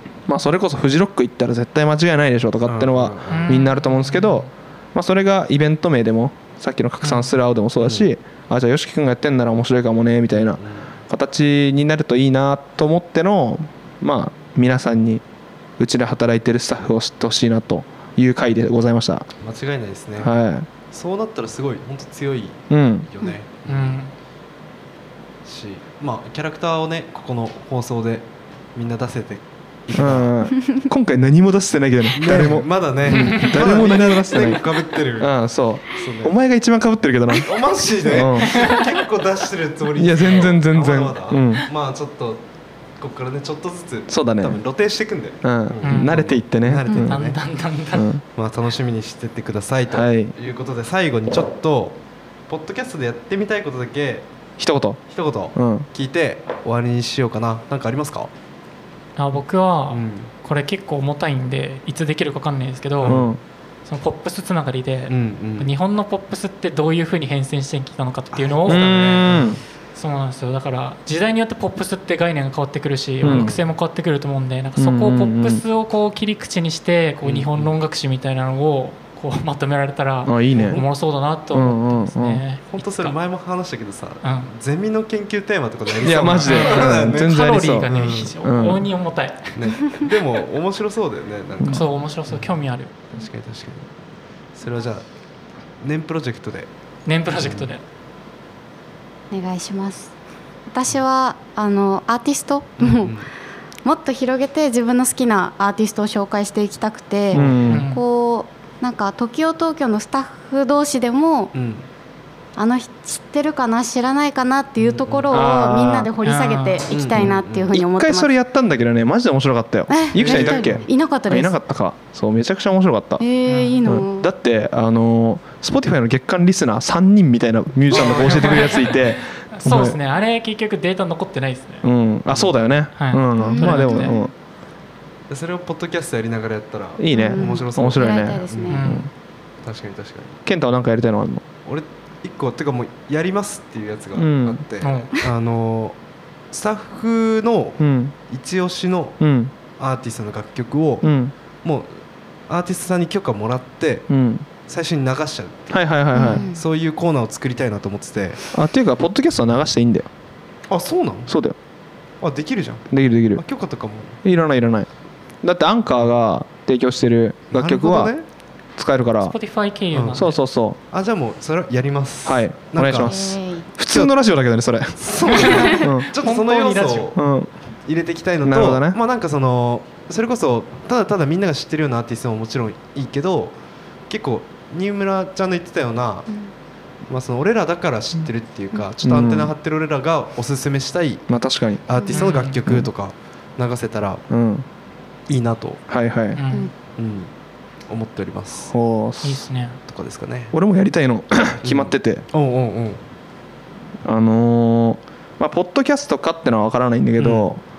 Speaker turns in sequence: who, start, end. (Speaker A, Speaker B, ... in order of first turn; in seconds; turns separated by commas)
Speaker A: 0.3-15.2, Speaker B: 2.6-3.7, Speaker C: 3.3-4.5, Speaker C: 7.0-7.3, Speaker B: 7.8-8.1, Speaker B: 10.5-10.9, Speaker A: 15.8-19.3, Speaker B: 19.4-20.3, Speaker A: 20.2-20.7, Speaker B: 20.9-24.0, Speaker A: 22.7-23.1, Speaker C: 23.7-24.1, Speaker B: 25.4-30.4, Speaker A: 29.9-38.6, Speaker B: 32.1-35.3, Speaker C: 33.1-33.6, Speaker B: 35.9-36.4, Speaker B: 37.4-42.4, Speaker C: 38.5-39.0, Speaker A: 40.0-41.7, Speaker B: 43.0-47.4, Speaker A: 44.1-44.6, Speaker A: 45.4-47.2, Speaker C: 45.8-46.2, Speaker C: 47.1-48.1, Speaker A: 47.9-48.2, Speaker B: 48.3-54.3, Speaker A: 49.9-50.3, Speaker A: 54.6-55.0, Speaker B: 55.1-58.3, Speaker A: 55.5-55.9, Speaker C: 59.2-63.2, Speaker B: 59.9-60.3, Speaker B: 63.0-63.3, Speaker A: 63.0-63.4, Speaker C: 63.9-69.4, Speaker B: 65.1-65.7, Speaker B: 68.3-69.6, Speaker A: 68.7-69.6, Speaker C: 69.9-83.2, Speaker A: 73.2-73.6, Speaker B: 73.2-73.6, Speaker A: 74.8-75.6, Speaker B: 77.2-77.7, Speaker A: 80.2-80.8, Speaker B: 80.5-80.9, Speaker A: 81.5-82.4, Speaker B: 82.7-88.4, Speaker C: 84.2-84.5, Speaker A: 86.0-87.9, Speaker C: 86.4-90.0, Speaker A: 88.4-88.9, Speaker B: 89.6-92.5, Speaker C: 91.7-92.9, Speaker B: 93.1-93.9, Speaker B: 94.5-95.0, Speaker B: 95.8-96.7, Speaker C: 97.0-97.8, Speaker B: 97.3-97.7, Speaker D: 99.3-100.2, Speaker D: 100.7-103.2, Speaker B: 102.8-103.3, Speaker D: 103.8-111.5, Speaker B: 107.3-107.7, Speaker A: 107.3-107.9, Speaker C: 107.7-108.0, Speaker B: 111.5-111.9, Speaker D: 112.6-118.3, Speaker B: 114.8-115.4, Speaker A: 115.3-116.1, Speaker C: 116.2-116.9, Speaker B: 116.9-117.8, Speaker A: 117.1-123.2, Speaker D: 119.9-121.5, Speaker B: 120.2-120.9, Speaker D: 123.2-124.3, Speaker C: 123.5-123.8, Speaker A: 123.8-130.0, Speaker B: 127.9-129.0, Speaker C: 127.9-131.9, Speaker A: 131.8-134.3, Speaker C: 133.0-134.2, Speaker D: 133.4-134.0, Speaker B: 135.3-138.8, Speaker A: 137.0-139.1, Speaker D: 137.1-138.8, Speaker C: 138.7-139.1, Speaker B: 139.6-140.4, Speaker A: 140.5-141.4, Speaker B: 141.7-146.0, Speaker A: 144.2-144.6, Speaker C: 144.8-145.1, Speaker B: 146.5-149.2, Speaker A: 147.8-148.2, Speaker A: 149.2-149.5, Speaker B: 149.8-151.1, Speaker A: 151.0-151.3, Speaker B: 151.6-151.9, Speaker B: 152.5-154.1, Speaker A: 154.1-154.5, Speaker B: 154.6-158.4, Speaker A: 155.7-156.5, Speaker D: 156.1-156.6, Speaker A: 158.5-160.1, Speaker B: 160.7-161.3, Speaker A: 161.3-161.6, Speaker B: 162.2-164.2, Speaker A: 162.9-163.4, Speaker A: 164.2-164.9, Speaker A: 165.4-168.1, Speaker B: 167.5-168.2, Speaker A: 168.8-169.3, Speaker C: 169.2-170.4, Speaker B: 169.9-170.3, Speaker A: 170.1-170.8, Speaker B: 170.9-173.2, Speaker A: 172.2-175.1, Speaker D: 173.0-173.7, Speaker B: 175.0-177.2, Speaker C: 175.3-177.2, Speaker A: 175.7-176.1, Speaker A: 177.2-177.5, Speaker B: 177.8-183.6, Speaker A: 178.4-179.0, Speaker B: 184.1-186.3, Speaker B: 187.1-191.3, Speaker A: 189.0-189.5, Speaker A: 191.3-191.9, Speaker B: 191.9-194.2, Speaker C: 192.1-192.6, Speaker A: 194.3-194.7, Speaker B: 195.3-195.8, Speaker A: 195.9-196.4, Speaker C: 196.3-196.7, Speaker B: 196.9-197.3, Speaker B: 197.9-198.7, Speaker A: 198.7-199.5, Speaker C: 199.2-199.8, Speaker B: 199.9-200.6, Speaker A: 200.5-202.3, Speaker B: 201.6-203.0, Speaker A: 204.1-207.6, Speaker B: 207.2-207.5